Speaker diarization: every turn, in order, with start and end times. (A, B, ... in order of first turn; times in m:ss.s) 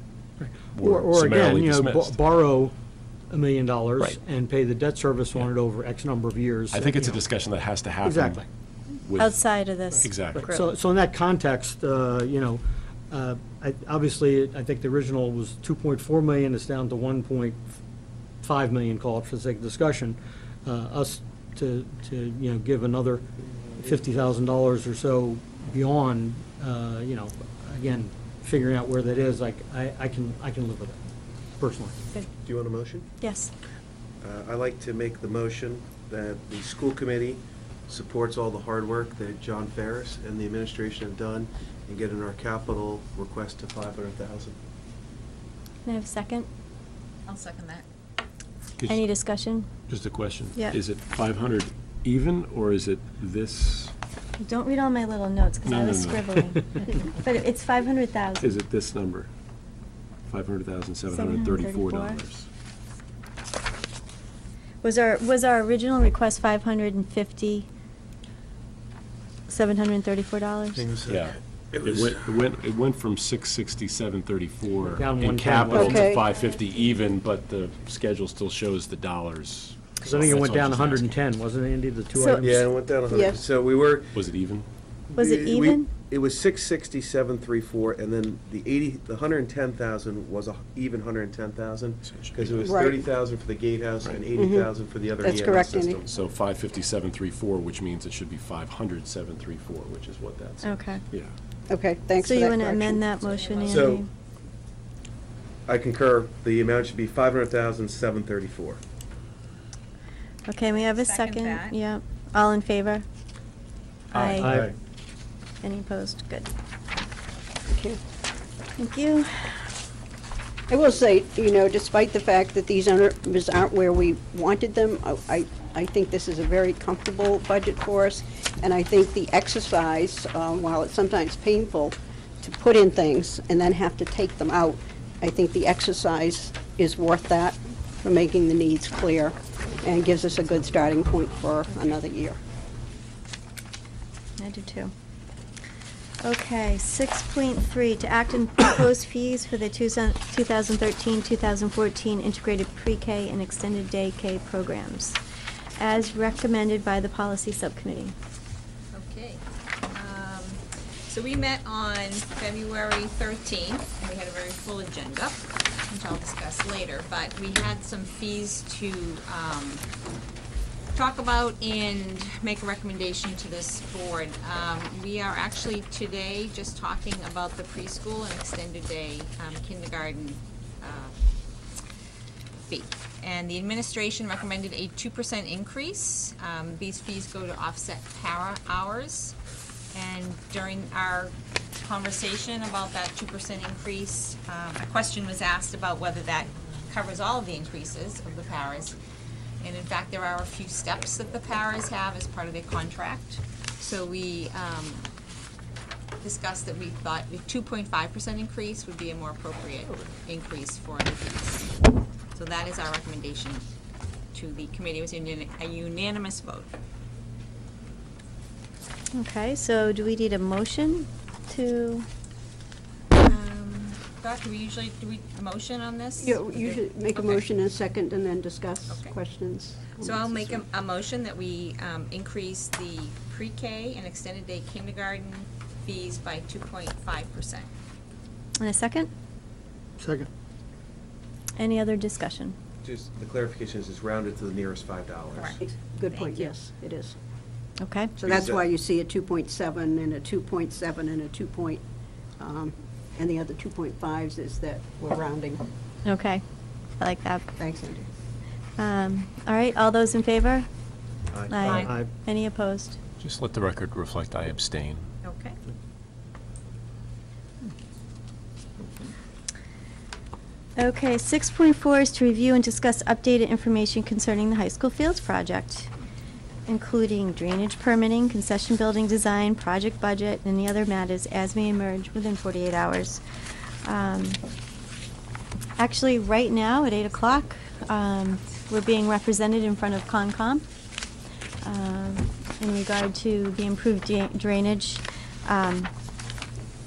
0:00.4-0:02.7 A
0:00.7-0:02.2 B
0:03.3-0:07.2 A
0:06.7-0:10.5 B
0:08.0-0:08.5 A
0:09.2-0:10.7 C
0:10.3-0:17.6 A
0:18.4-0:23.2 A
0:23.8-0:31.0 A
0:31.6-0:32.0 A
0:32.4-0:33.1 D
0:33.2-0:33.5 C
0:34.2-0:44.6 D
0:45.8-0:46.5 C
0:47.3-0:47.8 E
0:48.8-0:49.0 B
0:48.9-0:49.7 C
0:49.9-0:53.9 B
0:54.4-0:58.5 C
0:55.6-0:56.5 B
0:58.4-0:59.3 B
1:00.3-1:02.5 B
1:01.1-1:02.2 C
1:04.8-1:07.7 C
1:09.5-1:10.8 C
1:10.7-1:12.2 D
1:11.1-1:21.2 B
1:14.8-1:16.1 A
1:15.7-1:16.2 F
1:20.0-1:22.8 A
1:22.2-1:22.4 C
1:22.4-1:24.2 D
1:23.1-1:23.4 F
1:24.1-1:24.7 B
1:25.1-1:36.0 D
1:25.2-1:25.9 C
1:32.0-1:32.6 B
1:32.6-1:33.0 F
1:34.3-1:36.0 F
1:36.0-1:41.3 B
1:40.6-1:41.0 C
1:41.7-1:43.2 F
1:42.2-1:44.1 C
1:43.3-1:44.0 E
1:43.6-1:44.0 D
1:45.7-1:48.8 D
1:50.5-1:53.0 C
1:50.7-1:51.8 E
1:54.1-1:54.6 C
1:54.1-1:54.7 D
1:54.3-1:54.7 A
1:55.6-1:56.5 C
1:57.7-1:58.0 F
1:58.8-1:59.5 C
2:00.7-2:22.4 F
2:24.4-2:24.9 C
2:26.2-2:35.2 C
2:35.8-2:38.1 C
2:38.9-2:49.8 E
2:50.9-3:01.1 E
3:02.7-3:09.4 E
3:09.9-3:19.0 E
3:19.6-3:25.1 E
3:26.2-3:31.7 E
3:32.3-3:33.6 E
3:34.3-3:36.7 E
3:39.1-3:42.0 C
3:43.1-3:47.4 E
3:46.2-3:50.6 F
3:48.9-3:49.2 E
3:49.9-3:57.7 E
3:58.6-3:59.1 C
4:00.0-4:00.3 A
4:01.6-4:02.6 C
4:02.8-4:05.6 D
4:05.3-4:06.5 E
4:05.6-4:07.1 F
4:07.8-4:08.2 C
4:08.2-4:11.8 F
4:08.2-4:08.6 D
4:12.4-4:15.6 F
4:16.0-4:16.4 C
4:17.0-4:17.4 C
4:17.6-4:18.1 F
4:18.8-4:20.7 C
4:21.3-4:21.9 D
4:21.5-4:23.0 C
4:21.6-4:21.9 E
4:21.8-4:22.1 A
4:23.2-4:25.1 B
4:25.2-4:25.6 E
4:30.8-4:35.9 C
4:36.7-4:43.2 C
4:43.8-4:44.4 C
4:45.8-4:50.6 C
4:51.6-4:55.9 C